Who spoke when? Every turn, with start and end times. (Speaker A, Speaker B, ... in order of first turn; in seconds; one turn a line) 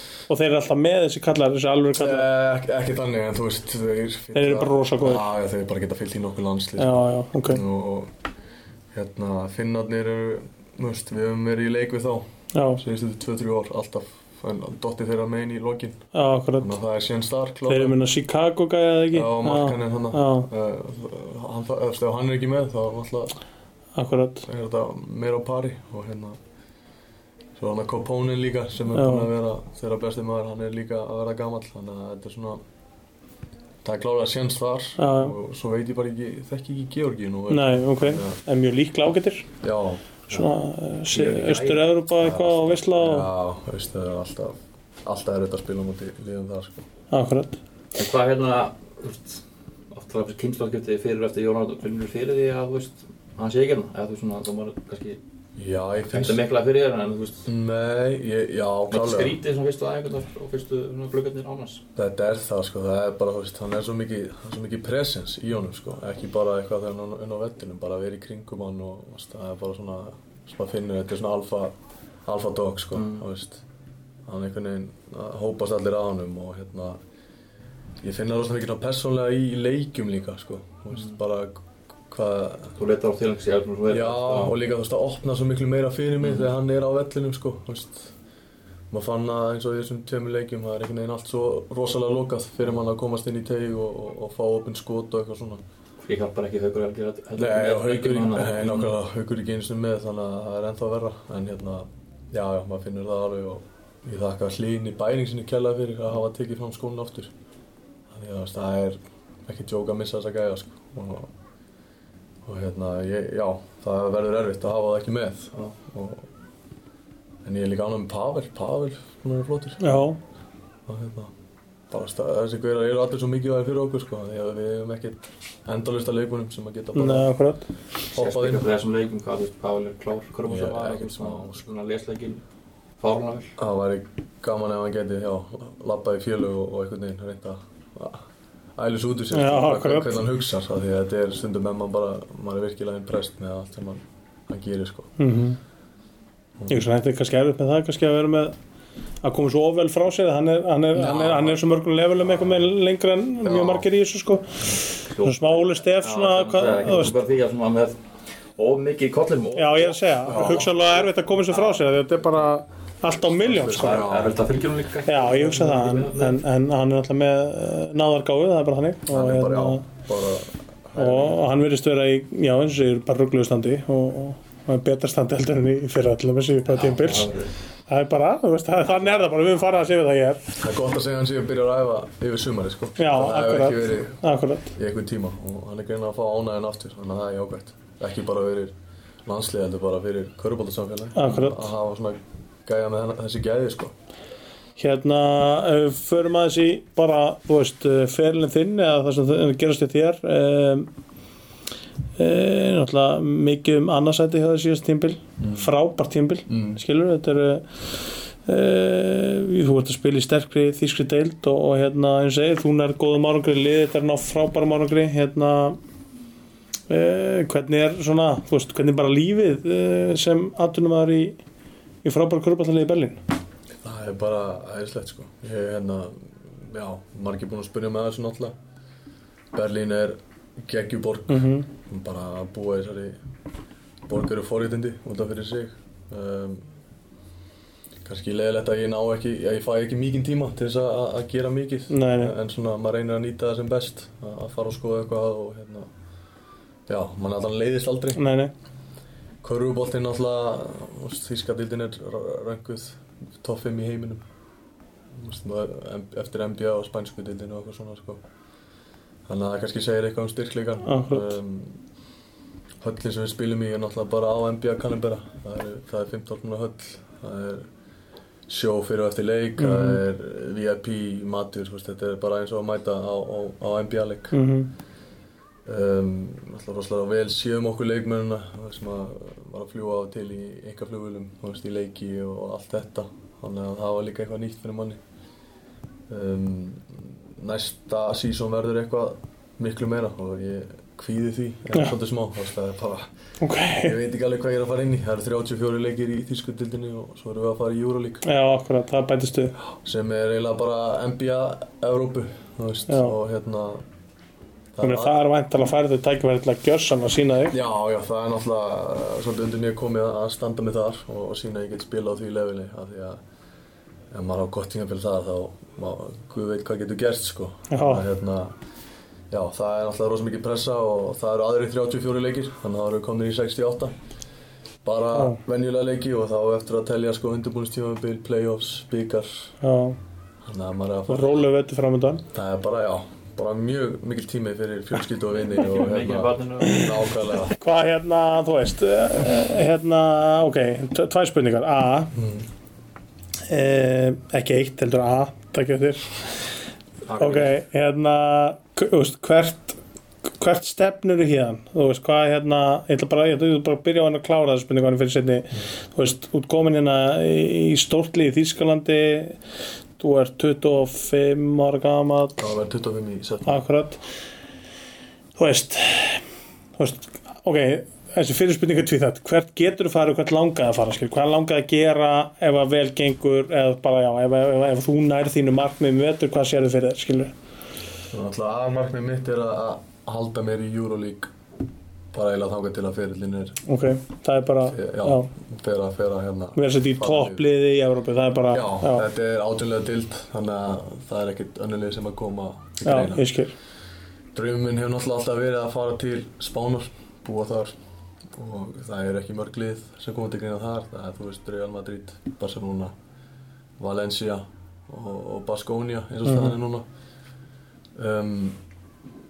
Speaker A: 0.3-2.3
Speaker B: 1.9-8.1
Speaker A: 4.3-5.2
Speaker A: 6.8-7.6
Speaker B: 8.9-16.0
Speaker A: 12.5-12.8
Speaker A: 16.1-16.8
Speaker B: 16.6-18.0
Speaker A: 17.7-20.5
Speaker B: 19.1-23.3
Speaker A: 23.9-24.4
Speaker B: 24.4-26.4
Speaker B: 27.6-32.6
Speaker A: 28.9-29.3
Speaker B: 33.8-38.4
Speaker A: 35.0-35.4
Speaker A: 37.5-39.5
Speaker B: 39.6-40.0
Speaker A: 40.3-43.3
Speaker C: 41.1-41.9
Speaker B: 42.2-46.9
Speaker A: 47.1-47.6
Speaker C: 47.9-55.2
Speaker B: 55.6-56.4
Speaker C: 56.1-57.5
Speaker B: 57.5-59.4
Speaker C: 58.9-61.8
Speaker B: 61.9-71.7
Speaker B: 72.3-73.6
Speaker C: 72.9-73.2
Speaker B: 74.3-77.0
Speaker B: 78.0-82.8
Speaker C: 82.8-84.5
Speaker B: 83.9-88.1
Speaker B: 88.9-95.6
Speaker C: 96.0-98.9
Speaker B: 97.4-107.3
Speaker B: 108.1-111.3
Speaker B: 112.4-116.3
Speaker B: 117.4-120.0
Speaker A: 119.8-120.2
Speaker B: 120.9-121.3
Speaker B: 121.9-127.3
Speaker A: 126.9-127.7
Speaker C: 128.1-132.4
Speaker B: 128.2-128.7
Speaker B: 130.5-131.6
Speaker C: 133.0-133.5
Speaker B: 133.6-138.2
Speaker B: 138.8-145.2
Speaker A: 139.3-140.2
Speaker A: 145.2-145.6
Speaker B: 146.6-146.8
Speaker A: 146.7-148.5
Speaker A: 149.2-157.2
Speaker B: 150.9-151.6
Speaker B: 153.4-153.9
Speaker C: 155.1-157.9
Speaker C: 158.6-161.8
Speaker A: 159.6-164.1
Speaker B: 160.3-160.7
Speaker B: 163.2-164.4
Speaker C: 163.7-166.4
Speaker A: 165.1-169.9
Speaker B: 169.1-171.4
Speaker A: 170.9-177.3
Speaker C: 176.7-177.5
Speaker A: 177.9-180.5
Speaker C: 179.0-179.2
Speaker B: 180.6-184.2
Speaker A: 183.0-184.7
Speaker B: 184.7-193.9
Speaker A: 191.2-191.7
Speaker A: 194.8-200.9
Speaker A: 202.2-207.7
Speaker B: 205.4-205.7
Speaker B: 206.5-206.8
Speaker A: 208.4-215.8
Speaker A: 216.9-221.4
Speaker A: 222.0-223.2
Speaker B: 223.8-228.6
Speaker B: 229.5-233.2
Speaker A: 231.3-231.7
Speaker B: 234.1-236.7
Speaker B: 238.0-245.9
Speaker A: 241.9-242.3
Speaker B: 246.9-248.2
Speaker A: 248.2-248.5
Speaker B: 249.4-254.2
Speaker B: 255.1-258.2
Speaker B: 259.3-261.8
Speaker A: 260.8-261.4
Speaker B: 262.8-267.7
Speaker B: 268.5-274.4
Speaker A: 269.6-270.0
Speaker A: 274.3-274.7
Speaker B: 275.7-285.0
Speaker B: 286.1-293.1
Speaker A: 293.4-293.9
Speaker B: 293.7-298.2
Speaker A: 298.2-299.6
Speaker B: 299.7-303.8
Speaker A: 302.9-303.2
Speaker B: 304.8-305.2
Speaker A: 304.8-307.6
Speaker B: 307.5-313.2
Speaker B: 314.1-318.5
Speaker A: 317.7-318.1
Speaker B: 319.3-323.9
Speaker B: 324.8-329.5
Speaker A: 325.1-325.4
Speaker A: 329.6-330.0
Speaker B: 330.4-331.5
Speaker A: 331.1-332.2
Speaker B: 332.3-337.6
Speaker C: 335.6-337.0
Speaker A: 337.5-342.1
Speaker B: 342.1-342.5
Speaker A: 343.5-346.1
Speaker C: 347.1-347.5
Speaker A: 347.2-349.8
Speaker A: 350.4-359.4
Speaker A: 360.0-362.4
Speaker B: 362.4-363.6
Speaker A: 363.4-364.0
Speaker A: 365.4-366.2
Speaker A: 366.8-377.3
Speaker B: 378.1-381.3
Speaker B: 382.1-383.6
Speaker A: 383.7-385.3
Speaker B: 384.7-387.5
Speaker A: 386.6-389.1
Speaker B: 388.5-393.3
Speaker A: 392.8-393.5
Speaker B: 394.3-397.8
Speaker B: 398.3-402.9
Speaker B: 403.8-406.8
Speaker A: 406.3-406.6
Speaker B: 407.9-408.6